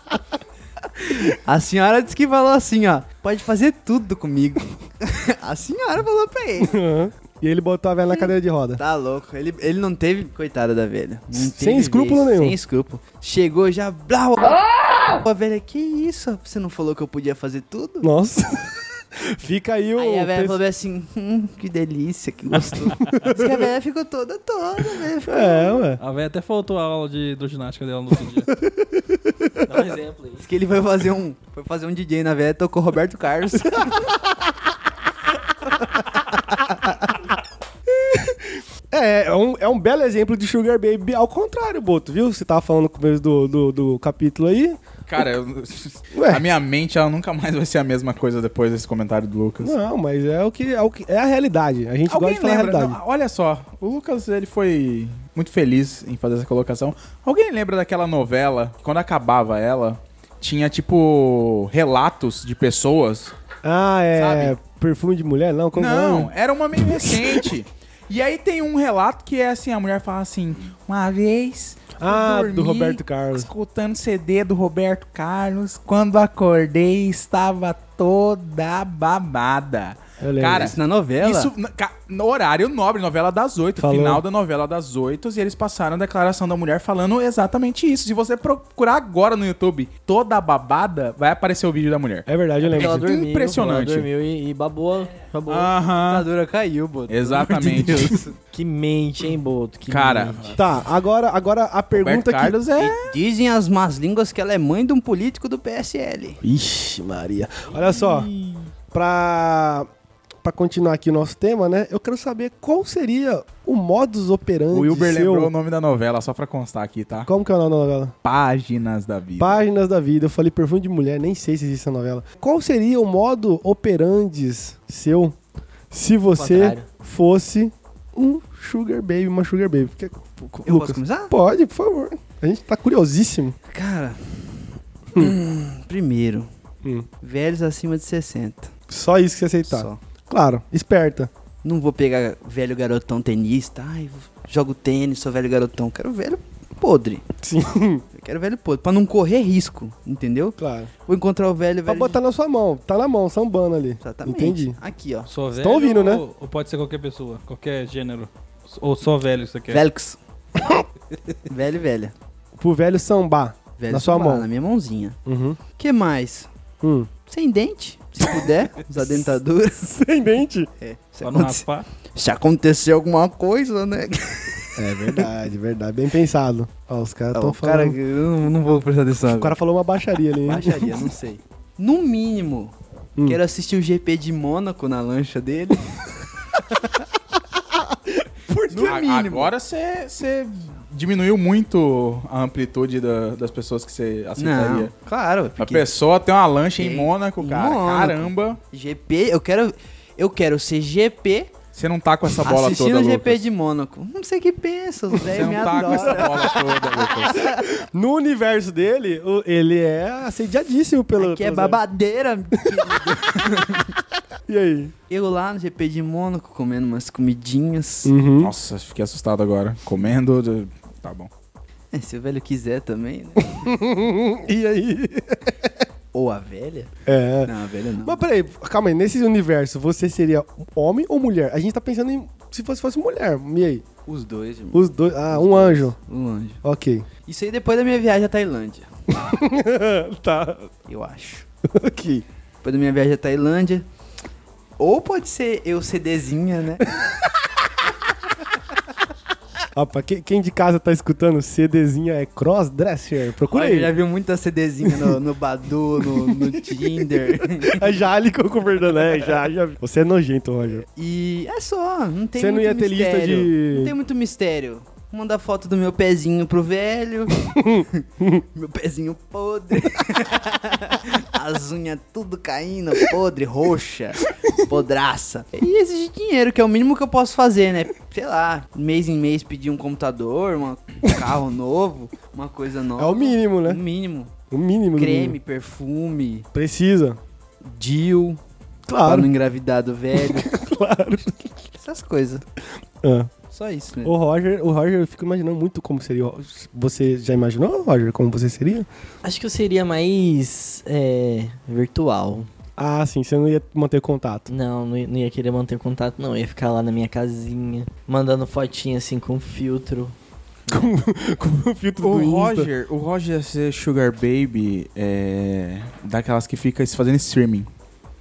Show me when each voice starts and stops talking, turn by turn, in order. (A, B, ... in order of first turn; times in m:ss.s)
0:01.0-0:06.8 A
0:06.6-0:08.8 B
0:08.1-0:18.1 A
0:11.3-0:12.6 B
0:18.0-0:20.6 B
0:20.0-0:25.9 A
0:23.0-0:23.7 B
0:25.2-0:26.0 B
0:26.0-0:28.5 C
0:28.6-0:29.6 B
0:29.6-0:30.4 D
0:30.4-0:34.1 A
0:33.6-0:34.5 B
0:35.8-0:37.2 B
0:37.9-0:44.8 B
0:45.1-0:49.7 E
0:46.1-0:46.4 B
0:49.6-0:53.0 B
0:52.1-1:03.3 E
1:03.6-1:07.5 B
1:04.2-1:04.6 E
1:05.7-1:34.1 E
1:12.0-1:13.5 B
1:20.2-1:20.7 B
1:20.5-1:21.5 A
1:23.8-1:24.2 B
1:32.3-1:33.0 B
1:32.6-1:35.7 D
1:35.5-1:36.3 E
1:36.1-1:38.3 A
1:37.1-1:38.2 E
1:38.5-1:40.6 D
1:39.9-1:40.6 E
1:40.6-1:42.6 B
1:41.9-1:43.1 E
1:42.8-1:46.4 A
1:46.4-1:48.3 B
1:48.9-1:49.9 B
1:50.4-1:55.5 B
1:54.7-1:57.3 E
1:57.2-1:58.1 B
1:58.2-1:59.6 E
1:59.4-2:05.4 B
2:05.9-2:13.6 B
2:06.3-2:06.9 D
2:10.6-2:11.3 A
2:13.7-2:16.5 A
2:17.2-2:18.7 A
2:18.9-2:21.3 B
2:19.7-2:20.0 A
2:21.6-2:27.2 A
2:27.4-2:28.0 B
2:28.1-2:32.2 A
2:30.6-2:30.9 B
2:31.8-2:34.8 B
2:34.0-2:35.3 A
2:35.3-2:39.8 C
2:35.5-2:36.2 B
2:39.7-2:40.2 A
2:40.6-2:40.8 B
2:41.5-2:42.1 A
2:42.6-2:44.5 B
2:43.8-2:45.2 A
2:45.2-2:45.6 B
2:45.7-2:46.5 A
2:46.8-2:47.1 B
2:47.2-2:50.0 A
2:49.9-2:50.7 B
2:50.8-2:55.3 A
2:51.2-2:51.8 C
2:54.8-2:58.0 B
2:57.3-2:59.6 A
2:59.2-3:01.1 B
3:00.3-3:07.0 A
3:08.5-3:08.9 B
3:08.5-3:09.5 A
3:08.7-3:14.9 E
3:14.4-3:15.9 A
3:15.6-3:18.6 E
3:16.8-3:21.5 A
3:21.7-3:23.4 E
3:22.4-3:27.6 A
3:25.2-3:27.5 E
3:25.3-3:31.8 B
3:31.2-3:33.9 A
3:32.6-3:33.8 B
3:34.5-3:34.9 B
3:35.1-3:38.1 A
3:38.0-3:38.5 B
3:38.4-3:41.3 E
3:41.9-3:43.8 A
3:43.6-3:45.8 B
3:46.1-3:46.9 A
3:47.0-3:53.8 B
3:47.4-3:48.2 A
3:54.0-3:56.6 A
3:54.7-3:56.0 B
3:56.6-3:57.1 B
3:57.2-3:58.9 A
3:59.1-4:00.7 B
4:00.9-4:01.4 A
4:01.6-4:02.2 B
4:02.6-4:03.8 A
4:04.8-4:07.0 A
4:09.7-4:13.9 B
4:13.5-4:18.0 A
4:14.8-4:15.2 B
4:16.0-4:16.5 B
4:17.6-4:20.8 B
4:21.0-4:44.3 A
4:22.3-4:23.9 B
4:27.4-4:28.4 B
4:43.0-4:43.8 B
4:44.5-4:45.4 B
4:45.0-4:46.5 A
4:46.5-4:47.2 B
4:47.6-4:48.4 A
4:48.9-4:49.3 B
4:49.0-4:50.6 A
4:50.1-4:51.6 B
4:51.8-4:52.4 A
4:53.0-4:53.3 B
4:53.5-4:54.1 A
4:54.0-4:58.9 B
4:59.2-5:02.5 D
5:02.8-5:04.5 B
5:04.5-5:10.1 D
5:10.7-5:12.7 B
5:12.0-5:17.7 E